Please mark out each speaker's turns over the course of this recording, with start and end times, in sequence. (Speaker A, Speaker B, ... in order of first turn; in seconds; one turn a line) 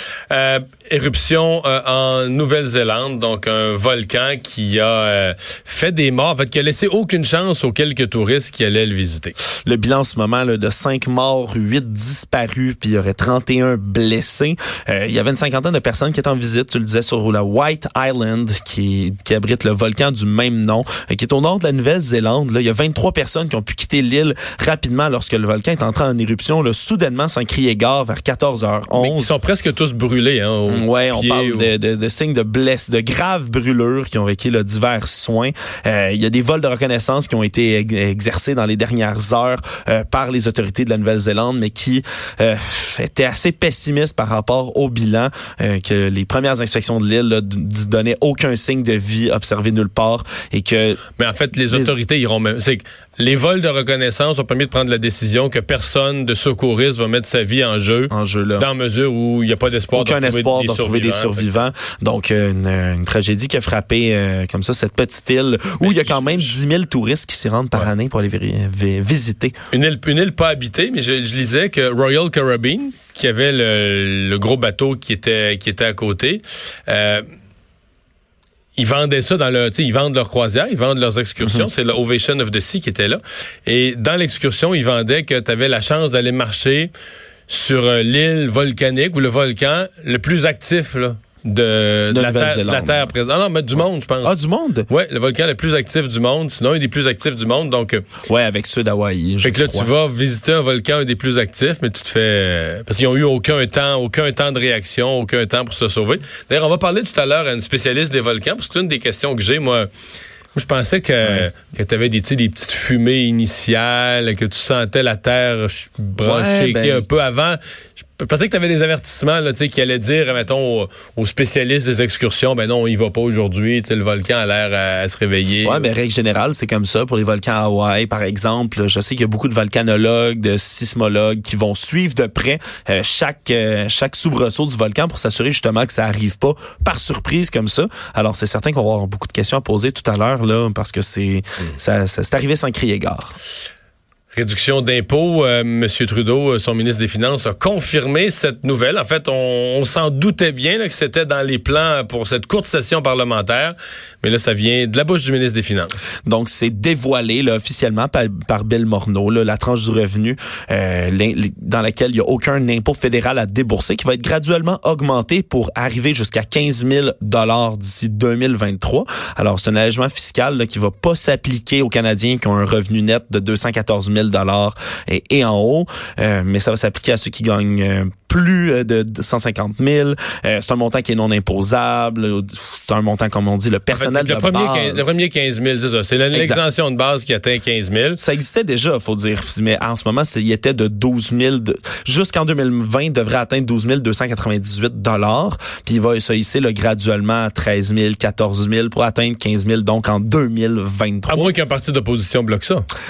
Speaker A: 0.3-9.4
Speaker B: 9.6-29.3
Speaker A: 28.9-31.7
Speaker B: 30.7-51.0
Speaker A: 51.2-61.5
Speaker B: 51.7-52.0
Speaker B: 58.1-58.7
Speaker B: 59.9-69.5
Speaker A: 65.8-66.6
Speaker A: 69.7-77.2
Speaker A: 78.8-86.9
Speaker B: 81.4-81.7
Speaker A: 87.5-98.1
Speaker B: 92.1-93.1
Speaker B: 93.8-94.9
Speaker B: 98.3-99.9
Speaker A: 99.4-109.9
Speaker A: 110.5-125.9
Speaker B: 111.2-111.5
Speaker B: 116.2-117.1
Speaker B: 125.6-143.4
Speaker A: 144.3-156.0
Speaker B: 156.3-185.2
Speaker A: 183.9-188.2
Speaker B: 186.3-186.6
Speaker B: 188.2-201.5
Speaker A: 201.3-202.8